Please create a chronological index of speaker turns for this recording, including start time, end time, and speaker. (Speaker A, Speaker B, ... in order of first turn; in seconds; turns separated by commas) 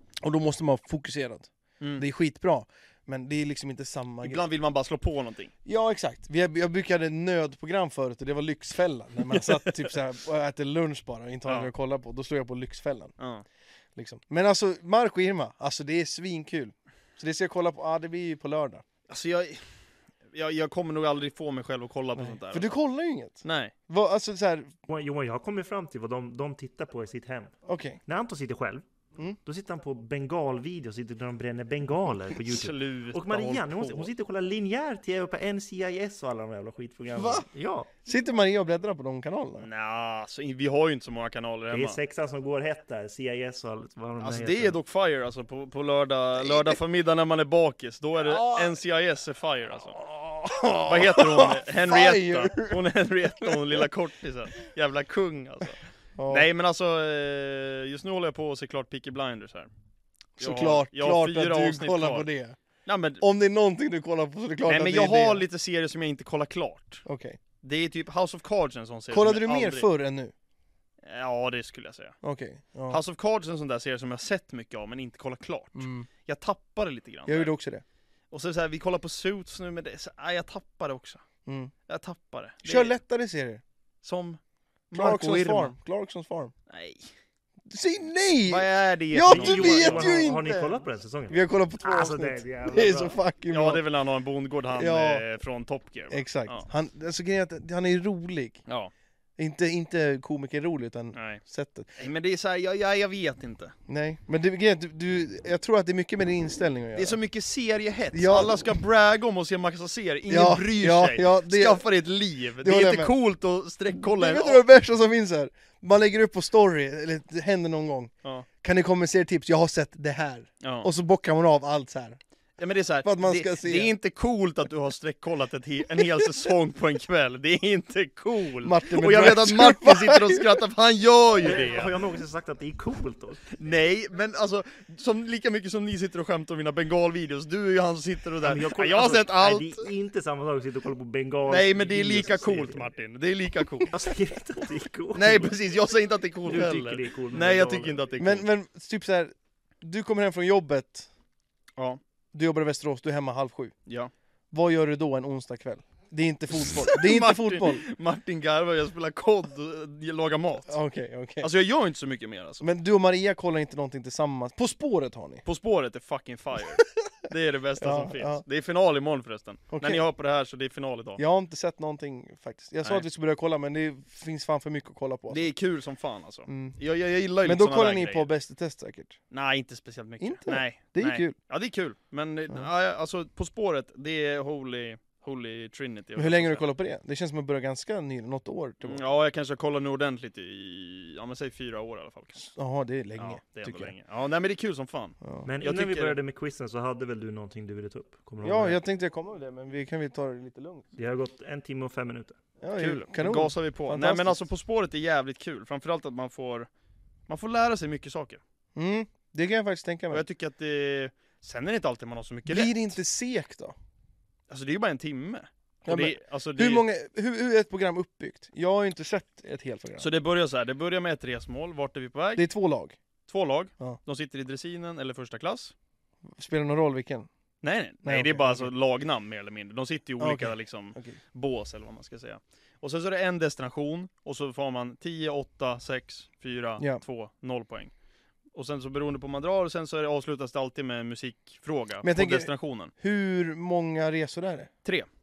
Speaker A: 0.2-4.5, Speaker B: 1.8-2.1, Speaker B: 4.2-5.5, Speaker A: 5.7-13.2, Speaker B: 9.3-9.9, Speaker B: 13.2-13.4, Speaker A: 14.0-18.9, Speaker B: 19.1-19.7, Speaker B: 20.3-22.8, Speaker A: 22.2-24.7, Speaker B: 23.4-23.7, Speaker C: 24.9-27.6, Speaker A: 27.7-28.0, Speaker C: 28.1-28.9, Speaker C: 29.4-37.9, Speaker B: 32.5-34.1, Speaker A: 37.1-37.5, Speaker A: 38.0-39.7, Speaker B: 39.6-42.0, Speaker C: 41.7-44.8, Speaker B: 44.2-50.0, Speaker A: 48.2-48.8, Speaker A: 49.9-52.9, Speaker B: 50.9-55.8, Speaker A: 53.4-53.9, Speaker A: 56.2-56.5, Speaker B: 56.3-59.7, Speaker A: 60.4-62.6, Speaker B: 60.4-62.3, Speaker B: 62.9-63.2, Speaker A: 63.2-65.5, Speaker B: 64.7-67.0, Speaker A: 67.0-67.4, Speaker B: 67.6-69.9, Speaker A: 69.1-70.3, Speaker B: 71.0-72.2, Speaker A: 72.2-73.0, Speaker B: 72.9-77.5, Speaker A: 75.8-76.1, Speaker A: 77.3-77.8, Speaker B: 78.3-81.2, Speaker A: 81.5-81.7, Speaker B: 81.9-83.0, Speaker A: 82.6-83.6, Speaker B: 84.0-84.4, Speaker B: 84.9-85.7, Speaker A: 84.9-86.5, Speaker B: 86.7-87.1, Speaker A: 87.7-90.8, Speaker B: 88.5-90.1, Speaker C: 89.3-93.2, Speaker A: 91.3-93.8, Speaker B: 93.5-96.7, Speaker A: 94.7-95.3, Speaker A: 96.1-98.6, Speaker A: 99.4-102.0, Speaker B: 101.1-101.4, Speaker B: 102.0-103.7, Speaker A: 103.9-107.2, Speaker B: 107.0-114.6, Speaker A: 108.1-108.8, Speaker A: 110.3-111.8, Speaker A: 112.6-113.1, Speaker A: 114.0-122.2, Speaker B: 120.6-120.9, Speaker B: 122.6-131.9, Speaker A: 123.0-123.9, Speaker A: 128.6-130.6, Speaker C: 131.4-133.5, Speaker B: 133.5-139.8, Speaker C: 138.4-142.9, Speaker B: 141.5-143.9, Speaker C: 143.9-145.6, Speaker B: 145.1-148.4, Speaker C: 146.4-148.0, Speaker A: 148.2-151.1, Speaker A: 152.3-153.8, Speaker A: 154.5-157.8, Speaker B: 156.6-160.8, Speaker A: 160.7-161.5, Speaker B: 161.4-162.6, Speaker A: 162.6-165.4, Speaker B: 165.4-171.2, Speaker A: 167.8-168.4, Speaker A: 169.7-170.0, Speaker A: 171.2-175.5, Speaker B: 175.3-178.3, Speaker A: 176.5-176.8, Speaker A: 177.4-179.2, Speaker B: 179.3-186.7, Speaker A: 180.2-181.4, Speaker A: 186.2-189.0, Speaker B: 188.8-192.5, Speaker A: 192.4-193.9, Speaker B: 193.2-196.2, Speaker A: 195.2-195.5, Speaker C: 195.4-198.8, Speaker A: 198.4-200.9, Speaker C: 201.0-202.4, Speaker A: 202.6-204.5, Speaker B: 202.8-206.7, Speaker B: 207.3-208.4, Speaker A: 208.8-210.2, Speaker B: 210.1-212.7, Speaker A: 212.5-213.8, Speaker B: 214.5-216.8, Speaker A: 215.9-220.1, Speaker B: 220.0-222.5, Speaker A: 222.4-223.0, Speaker B: 223.3-225.7, Speaker A: 226.3-227.3, Speaker B: 227.6-237.9, Speaker A: 228.0-228.7, Speaker A: 230.2-231.2, Speaker B: 238.5-242.9, Speaker A: 242.0-244.7